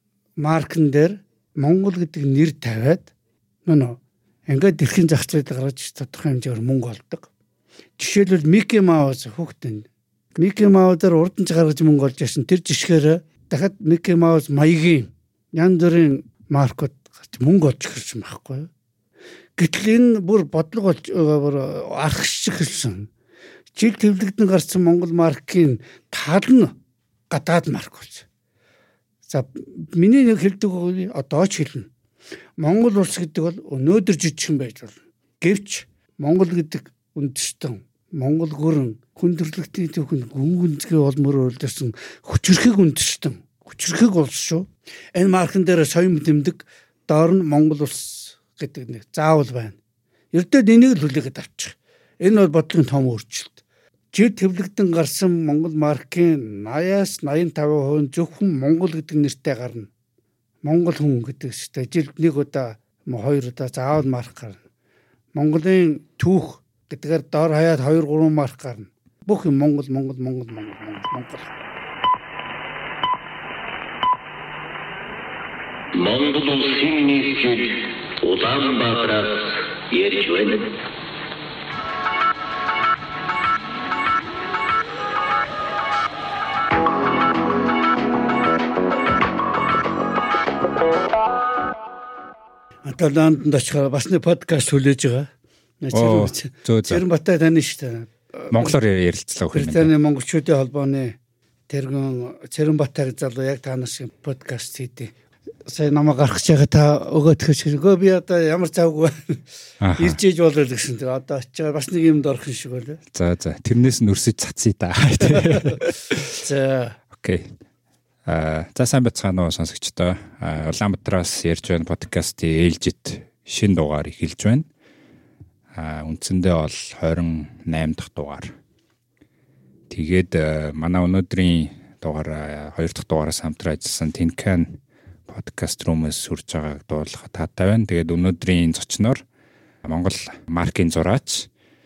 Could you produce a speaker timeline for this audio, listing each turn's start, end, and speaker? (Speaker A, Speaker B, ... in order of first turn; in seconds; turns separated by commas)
Speaker A: 0.4-3.1, Speaker A: 3.6-7.3, Speaker A: 8.0-18.7, Speaker A: 19.6-23.1, Speaker A: 23.8-26.7, Speaker A: 27.3-28.3, Speaker A: 29.3-31.9, Speaker A: 32.6-49.8, Speaker A: 50.3-59.9, Speaker A: 60.6-64.6, Speaker A: 65.3-71.5, Speaker B: 75.9-80.8, Speaker A: 92.8-95.3, Speaker A: 95.8-98.8, Speaker C: 95.9-97.0, Speaker C: 98.5-99.9, Speaker A: 99.5-101.2, Speaker A: 101.7-105.1, Speaker A: 105.7-109.4, Speaker C: 109.8-110.2, Speaker A: 110.0-113.0, Speaker C: 113.1-116.3, Speaker A: 115.3-117.0, Speaker C: 117.1-117.5, Speaker C: 118.2-124.7, Speaker C: 125.7-128.5, Speaker C: 129.9-134.8, Speaker C: 135.3-139.2, Speaker C: 139.8-141.5